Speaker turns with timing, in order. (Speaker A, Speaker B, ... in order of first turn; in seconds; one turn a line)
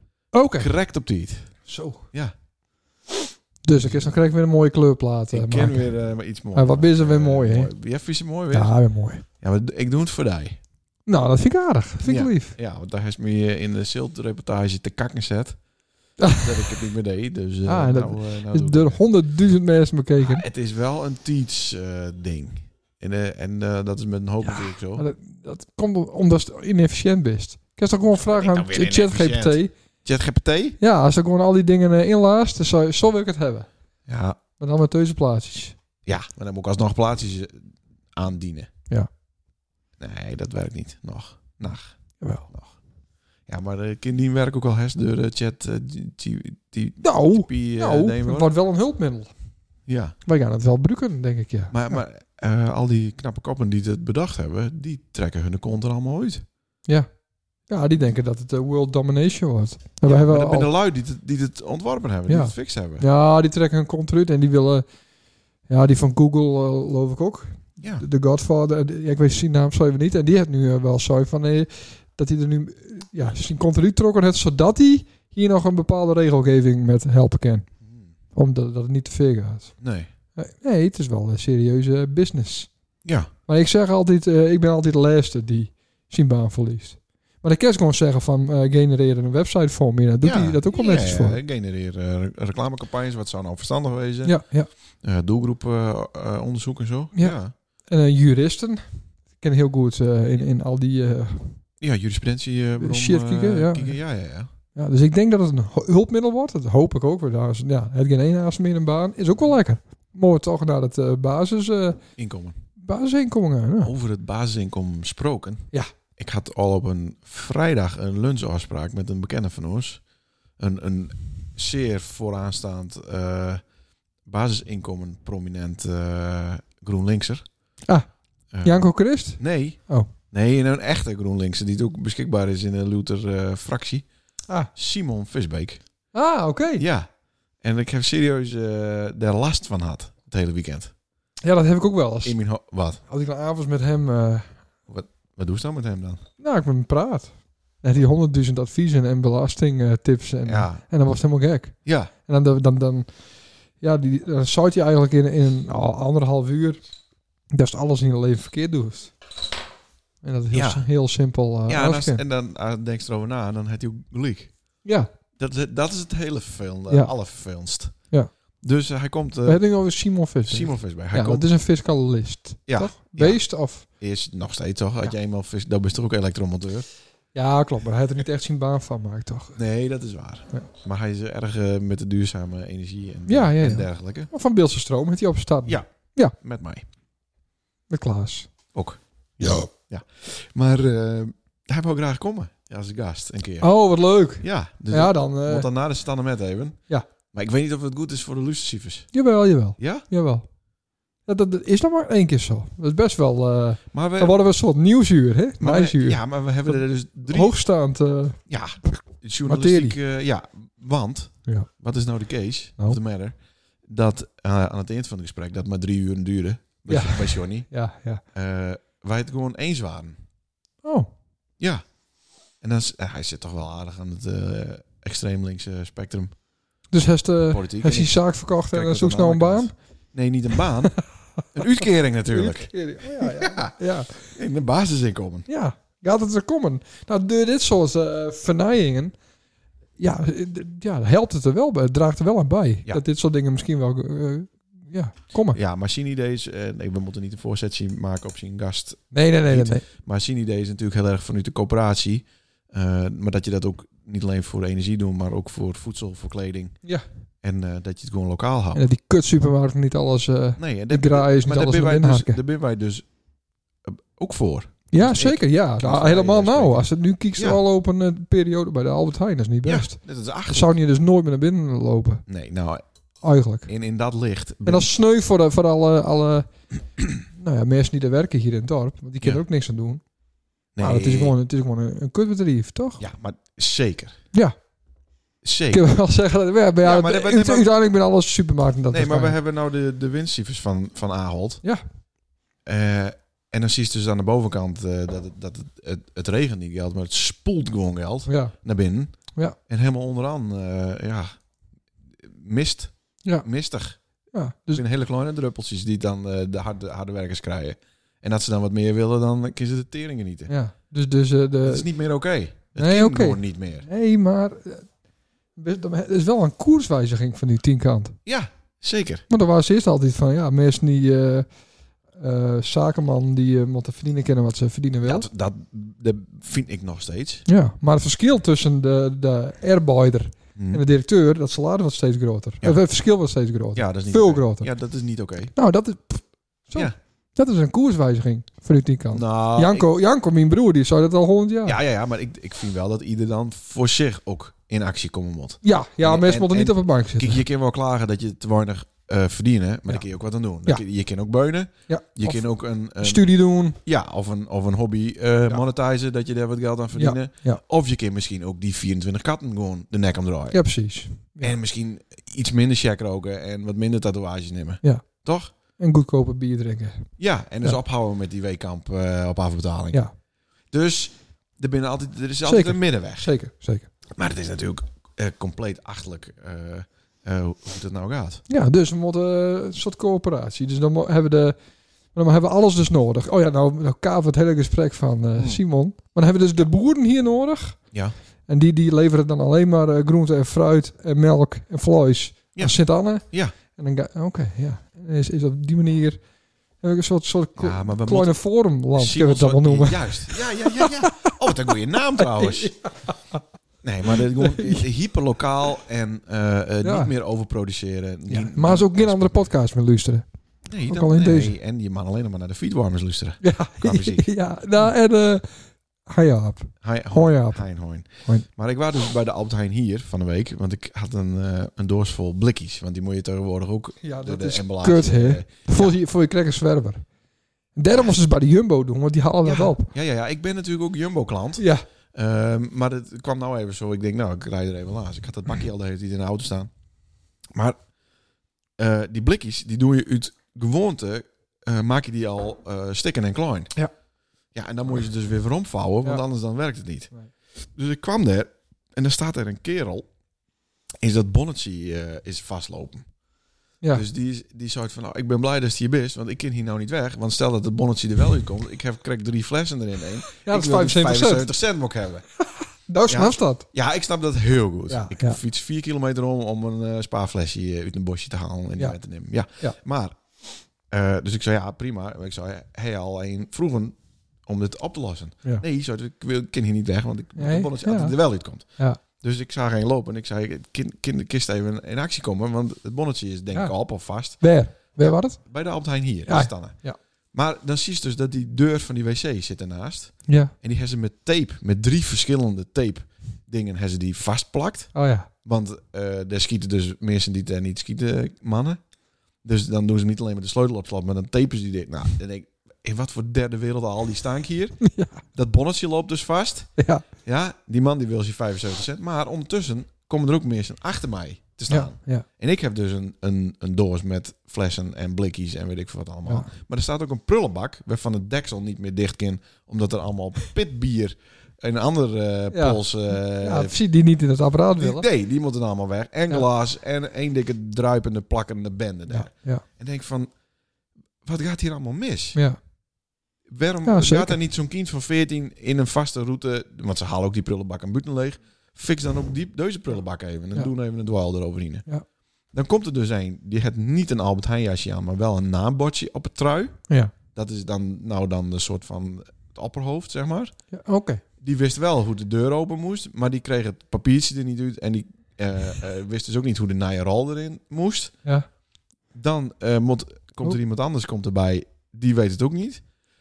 Speaker A: 0.3-0.7
Speaker B: 0.6-1.6
Speaker A: 1.7-2.0
Speaker A: 3.6-6.0
Speaker B: 3.7-4.2
Speaker B: 5.3-8.8
Speaker A: 6.5-7.7
Speaker A: 8.5-9.2
Speaker B: 9.3-10.6
Speaker A: 11.1-12.6
Speaker B: 12.0-15.6
Speaker A: 16.2-16.7
Speaker B: 16.3-19.1
Speaker A: 17.6-20.5
Speaker B: 20.2-25.1
Speaker A: 24.4-29.8
Speaker B: 28.2-30.8
Speaker A: 30.8-33.7
Speaker B: 34.1-34.4
Speaker A: 34.6-35.8
Speaker B: 36.1-38.7
Speaker B: 40.0-42.0
Speaker A: 42.2-42.5
Speaker B: 42.5-42.8
Speaker B: 43.5-48.5
Speaker A: 47.0-49.3
Speaker B: 49.9-50.2
Speaker A: 50.2-52.0
Speaker B: 51.7-56.4
Speaker A: 57.7-60.7
Speaker B: 60.0-63.1
Speaker A: 62.3-64.9
Speaker A: 65.7-77.7
Speaker A: 78.3-79.8
Speaker B: 79.8-80.1
Speaker A: 80.3-82.7
Speaker B: 83.0-83.3
Speaker A: 83.5-91.4
Speaker B: 90.2-94.5
Speaker A: 94.2-94.7
Speaker B: 95.0-97.5
Speaker A: 97.2-101.6
Speaker B: 101.8-104.5
Speaker A: 102.8-104.0
Speaker A: 104.8-112.0
Speaker B: 112.2-112.6
Speaker A: 112.8-113.9
Speaker B: 113.8-115.7
Speaker B: 116.2-120.0
Speaker B: 120.6-123.6
Speaker B: 124.2-127.4
Speaker B: 128.5-134.1
Speaker A: 128.6-130.1
Speaker B: 134.8-135.8
Speaker A: 136.1-136.9
Speaker B: 136.8-137.1
Speaker B: 137.6-140.9
Speaker A: 141.4-142.4
Speaker B: 142.2-143.0
Speaker A: 143.1-144.5
Speaker B: 144.9-146.2
Speaker A: 146.4-153.2
Speaker B: 150.4-150.8
Speaker B: 151.8-152.1
Speaker A: 153.8-156.8
Speaker A: 157.5-159.1
Speaker A: 160.2-162.2
Speaker B: 160.5-160.9
Speaker B: 161.7-164.5
Speaker A: 164.8-165.1
Speaker B: 165.4-168.0
Speaker B: 168.6-169.6
Speaker A: 169.4-173.9
Speaker B: 170.4-171.5
Speaker B: 172.7-176.9
Speaker A: 177.3-179.6
Speaker B: 179.6-184.3
Speaker A: 183.3-186.3
Speaker B: 185.7-186.9
Speaker A: 187.9-188.5
Speaker B: 188.7-193.7
Speaker A: 189.4-189.7
Speaker A: 193.6-195.7
Speaker B: 194.4-196.8
Speaker B: 197.3-199.1
Speaker A: 199.1-200.4
Speaker B: 199.8-200.1
Speaker A: 201.3-208.4
Speaker B: 203.9-204.4
Speaker B: 205.6-207.6
Speaker B: 208.5-217.7
Speaker A: 208.9-210.0
Speaker A: 216.9-218.2
Speaker B: 218.3-220.2
Speaker A: 220.8-221.1
Speaker B: 222.6-226.3
Speaker A: 226.9-229.7
Speaker B: 227.5-231.0
Speaker A: 231.0-231.4
Speaker B: 231.5-235.5
Speaker A: 232.3-234.2
Speaker A: 235.5-239.2
Speaker A: 240.0-245.6
Speaker B: 245.5-256.8
Speaker A: 249.1-249.8
Speaker B: 257.4-258.8
Speaker A: 258.7-262.4
Speaker B: 260.6-263.1
Speaker B: 263.8-267.6
Speaker A: 264.9-272.2
Speaker B: 269.6-270.7
Speaker B: 272.3-272.8
Speaker A: 273.2-273.7
Speaker B: 273.7-274.9
Speaker A: 274.6-276.5
Speaker A: 277.2-280.0
Speaker B: 280.8-281.4
Speaker A: 280.8-283.0
Speaker B: 283.0-284.2
Speaker B: 285.4-285.8
Speaker A: 285.7-289.4
Speaker B: 286.8-287.7
Speaker B: 288.9-291.6
Speaker B: 292.6-301.4
Speaker A: 298.3-298.6
Speaker B: 302.1-304.0
Speaker A: 304.3-304.8
Speaker B: 304.7-310.5
Speaker A: 310.5-311.9
Speaker B: 311.6-313.9
Speaker A: 312.8-314.9
Speaker A: 315.6-318.2
Speaker B: 318.3-319.2
Speaker A: 319.3-321.5
Speaker A: 322.1-325.3
Speaker B: 325.1-327.4
Speaker A: 327.5-334.7
Speaker B: 330.6-330.8
Speaker B: 333.8-335.5
Speaker A: 335.6-341.8
Speaker B: 339.1-339.9
Speaker B: 341.6-353.3
Speaker A: 345.6-347.4
Speaker A: 351.9-352.5
Speaker A: 353.0-353.8
Speaker B: 353.8-360.6
Speaker A: 356.9-357.6
Speaker A: 360.5-361.6
Speaker B: 361.4-365.5
Speaker A: 365.8-367.1
Speaker B: 367.2-370.0
Speaker B: 370.7-373.3
Speaker A: 372.4-373.9
Speaker B: 374.1-378.4
Speaker A: 378.5-381.6
Speaker A: 382.1-387.8
Speaker B: 385.4-385.6
Speaker A: 388.5-396.2
Speaker B: 392.6-393.5
Speaker A: 396.8-401.4
Speaker B: 397.6-398.4
Speaker B: 398.9-402.8
Speaker A: 402.2-403.4
Speaker B: 403.8-409.5
Speaker A: 404.1-404.9
Speaker A: 406.8-407.1
Speaker A: 408.3-410.3
Speaker B: 410.7-414.3
Speaker A: 410.9-411.6
Speaker A: 413.4-415.5
Speaker A: 416.1-417.6
Speaker B: 416.8-426.0
Speaker A: 424.0-427.1
Speaker A: 427.8-429.9
Speaker B: 429.4-436.7
Speaker A: 431.6-431.8
Speaker B: 437.5-437.8
Speaker B: 438.8-443.7
Speaker B: 444.5-450.1
Speaker B: 451.0-453.1
Speaker B: 453.9-462.3
Speaker A: 460.4-461.5
Speaker A: 462.4-463.6
Speaker B: 463.1-470.2
Speaker A: 464.9-465.4
Speaker B: 470.9-478.7
Speaker A: 477.4-478.2
Speaker B: 479.2-484.4
Speaker A: 484.3-485.4
Speaker B: 485.0-486.8
Speaker A: 486.3-487.0
Speaker B: 487.3-498.8
Speaker A: 490.3-490.5
Speaker A: 494.9-495.3
Speaker B: 499.4-504.8
Speaker A: 504.8-505.2
Speaker B: 505.3-506.7
Speaker A: 506.8-507.1
Speaker B: 507.2-523.8
Speaker A: 511.7-512.2
Speaker A: 522.5-525.1
Speaker B: 524.8-530.3
Speaker A: 529.1-529.6
Speaker B: 531.2-532.4
Speaker B: 533.5-541.9
Speaker A: 533.9-534.4
Speaker B: 542.5-546.8
Speaker B: 547.3-550.5
Speaker A: 550.7-551.2
Speaker B: 551.4-558.2
Speaker B: 559.1-562.8